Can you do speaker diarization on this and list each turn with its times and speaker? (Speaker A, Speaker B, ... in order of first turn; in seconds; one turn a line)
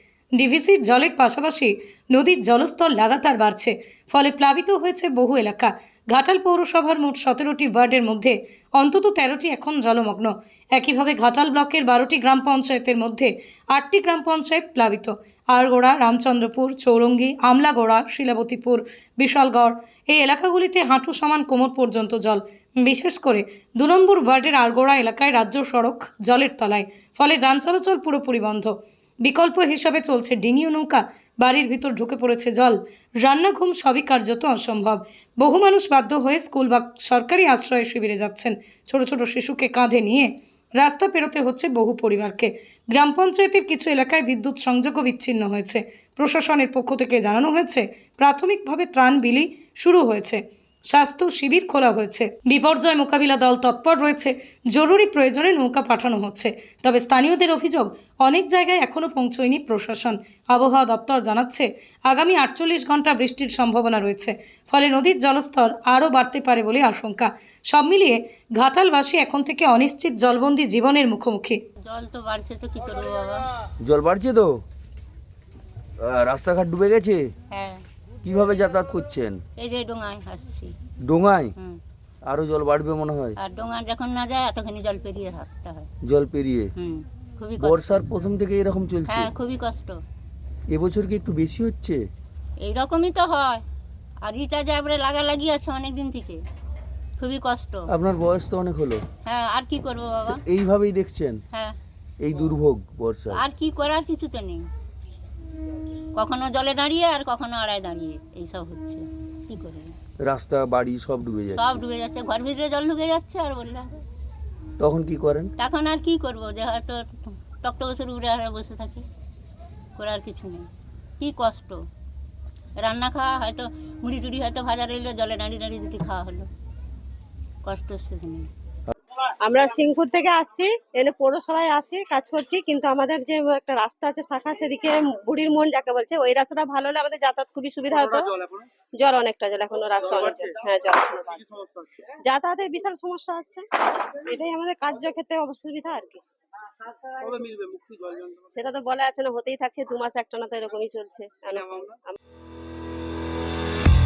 Speaker A: 0.4-71.6
Speaker B: 71.8-73.5
Speaker C: 73.8-74.5
Speaker C: 76.0-77.2
Speaker B: 77.5-77.8
Speaker C: 78.2-79.4
Speaker B: 79.6-80.7
Speaker C: 81.0-81.5
Speaker C: 82.3-83.4
Speaker B: 83.4-85.9
Speaker C: 86.0-86.7
Speaker B: 86.8-88.0
Speaker C: 87.6-89.3
Speaker B: 89.1-90.0
Speaker C: 90.7-92.0
Speaker B: 92.6-93.6
Speaker B: 94.2-96.4
Speaker B: 97.2-97.9
Speaker C: 97.9-99.0
Speaker B: 99.2-100.4
Speaker C: 100.4-101.4
Speaker B: 101.5-101.8
Speaker C: 102.2-103.4
Speaker B: 103.3-104.7
Speaker B: 106.2-110.0
Speaker C: 110.2-111.8
Speaker B: 111.6-114.0
Speaker C: 114.8-115.5
Speaker B: 115.6-119.0
Speaker B: 120.0-120.7
Speaker B: 121.2-121.8
Speaker B: 122.8-126.5
Speaker B: 127.7-128.5
Speaker D: 129.4-146.2
Speaker D: 148.5-152.2